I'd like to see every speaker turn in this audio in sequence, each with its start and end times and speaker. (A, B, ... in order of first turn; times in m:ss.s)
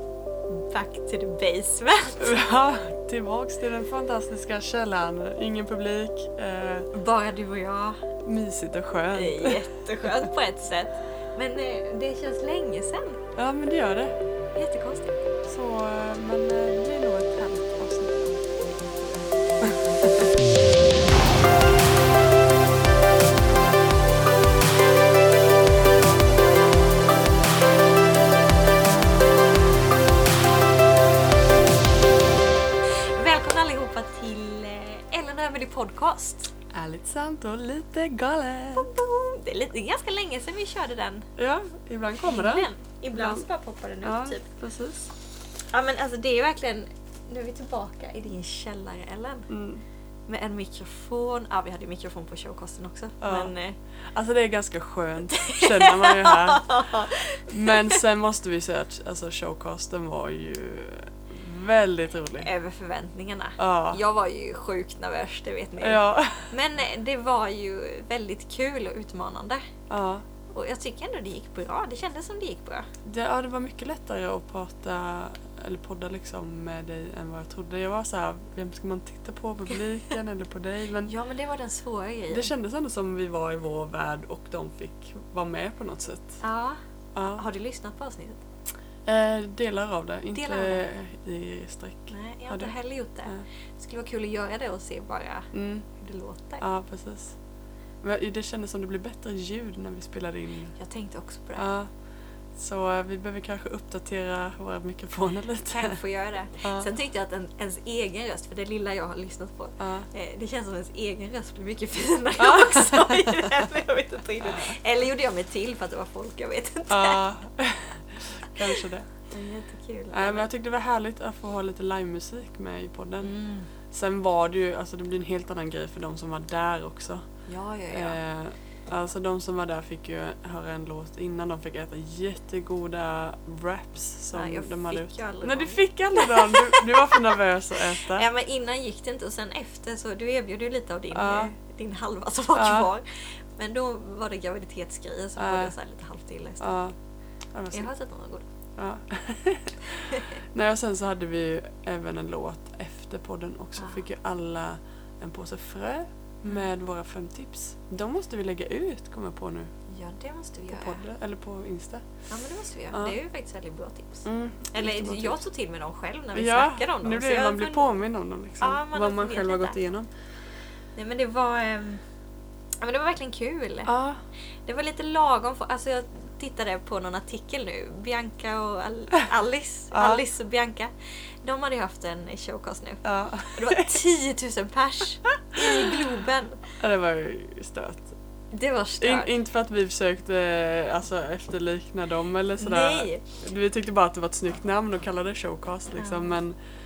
0:00.5-0:02.4 A
0:02.2-0:06.9 B
0:06.9-0:08.0 A
0:08.2-0:10.3 B
0:09.1-0:13.2 A
0:13.4-0:14.2 B
0:14.6-0:15.3 A
0:15.5-0:18.5 B
0:18.6-0:19.2 A
0:19.6-0:20.3 B
0:32.8-0:36.5 A
0:36.7-0:38.9 B
0:38.8-0:41.3 A
0:41.4-0:43.4 B
0:42.2-0:44.5 A
0:44.0-0:45.1 B
0:45.7-0:49.5 A
0:49.5-0:49.8 B
0:50.3-0:53.8 A
0:53.2-0:53.5 B
0:54.1-1:02.5 B
0:55.3-0:58.0 A
1:02.4-1:09.7 A
1:03.6-1:04.0 B
1:05.8-1:06.5 B
1:09.9-1:10.2 B
1:10.5-1:12.9 A
1:13.0-1:21.1 B
1:21.1-1:22.5 A
1:22.3-1:26.4 B
1:26.4-1:28.4 A
1:27.2-1:27.4 B
1:29.0-1:32.7 B
1:30.4-1:30.8 A
1:32.1-1:36.6 A
1:35.5-1:35.9 B
1:36.6-1:37.4 B
1:38.0-1:40.7 B
1:40.8-1:41.7 A
1:41.6-1:41.9 B
1:42.6-1:46.0 B
1:45.7-1:57.2 A
1:46.6-1:46.9 B
1:49.8-1:50.1 B
1:52.4-1:53.4 B
1:54.5-1:54.7 B
1:56.9-1:59.1 B
1:59.3-2:00.5 A
2:00.1-2:03.3 B
2:03.2-2:03.7 A
2:03.9-2:07.2 B
2:07.5-2:08.2 A
2:07.9-2:18.2 B
2:14.3-2:17.4 A
2:18.0-2:26.7 A
2:21.1-2:21.5 B
2:22.5-2:22.9 B
2:25.4-2:25.7 B
2:26.6-2:27.0 B
2:27.5-2:27.9 B
2:27.7-2:28.5 A
2:28.8-2:39.7 B
2:39.9-2:41.0 A
2:40.7-2:42.0 B
2:42.3-2:48.0 A
2:44.2-2:45.5 B
2:46.3-2:50.1 B
2:48.6-2:49.8 A
2:51.0-2:52.0 A
2:52.8-2:53.9 A
2:53.9-2:54.2 B
2:54.7-3:00.9 A
2:59.9-3:00.2 B
3:01.4-3:06.6 A
3:03.0-3:04.0 B
3:05.7-3:05.9 B
3:06.8-3:08.1 B
3:08.5-3:09.3 A
3:09.0-3:16.6 B
3:12.6-3:13.2 A
3:16.0-3:16.4 A